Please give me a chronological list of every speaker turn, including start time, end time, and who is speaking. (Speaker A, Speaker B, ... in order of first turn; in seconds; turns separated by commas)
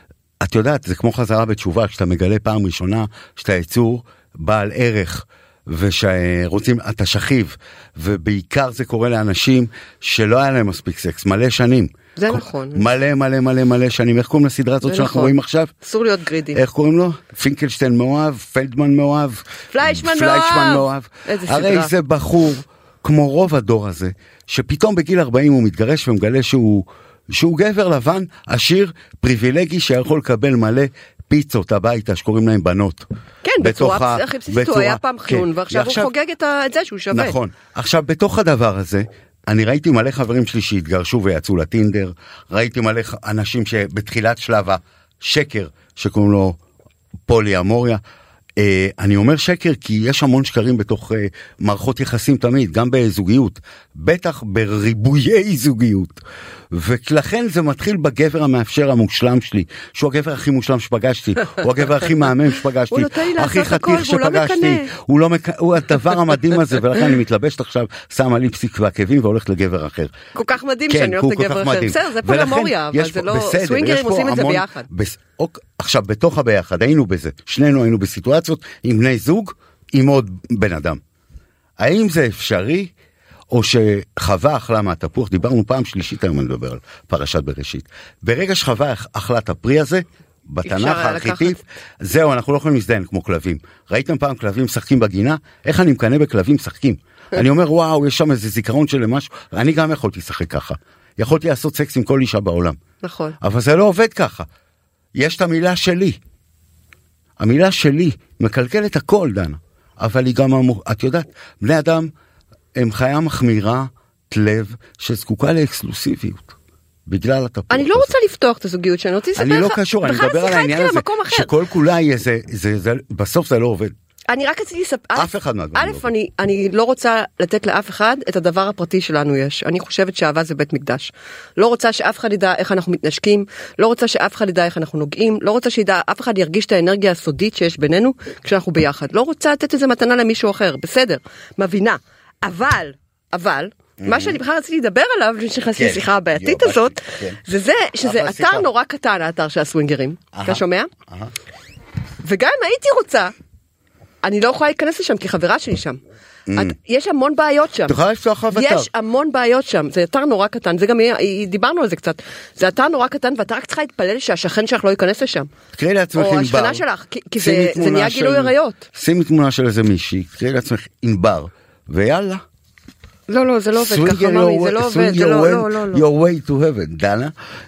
Speaker A: 0.4-15.7, Speaker B: 12.2-12.9, Speaker B: 14.8-16.6, Speaker A: 16.5-33.1, Speaker B: 19.7-21.9, Speaker B: 33.4-37.4, Speaker A: 33.6-36.1, Speaker A: 37.1-46.6, Speaker A: 47.3-48.0, Speaker A: 48.6-70.1, Speaker B: 62.9-64.9, Speaker B: 70.3-74.9, Speaker A: 70.9-81.0, Speaker A: 81.8-82.9, Speaker A: 83.5-102.8, Speaker B: 90.6-91.6, Speaker B: 103.0-103.4, Speaker A: 103.4-104.5, Speaker A: 105.2-106.2, Speaker A: 107.4-112.1, Speaker A: 112.8-116.5, Speaker A: 117.1-118.2, Speaker B: 117.7-121.5, Speaker A: 119.3-123.9, Speaker B: 124.3-150.9, Speaker A: 125.2-126.1, Speaker A: 144.0-144.4, Speaker A: 145.8-147.4, Speaker A: 148.0-148.7, Speaker A: 150.3-151.3, Speaker B: 152.2-153.3, Speaker B: 154.2-156.0, Speaker A: 156.5-156.7, Speaker B: 156.5-158.0, Speaker A: 157.9-158.9, Speaker B: 158.5-165.5, Speaker A: 165.8-166.8, Speaker B: 166.1-168.8, Speaker A: 167.4-172.4, Speaker B: 173.3-176.1, Speaker A: 173.8-177.3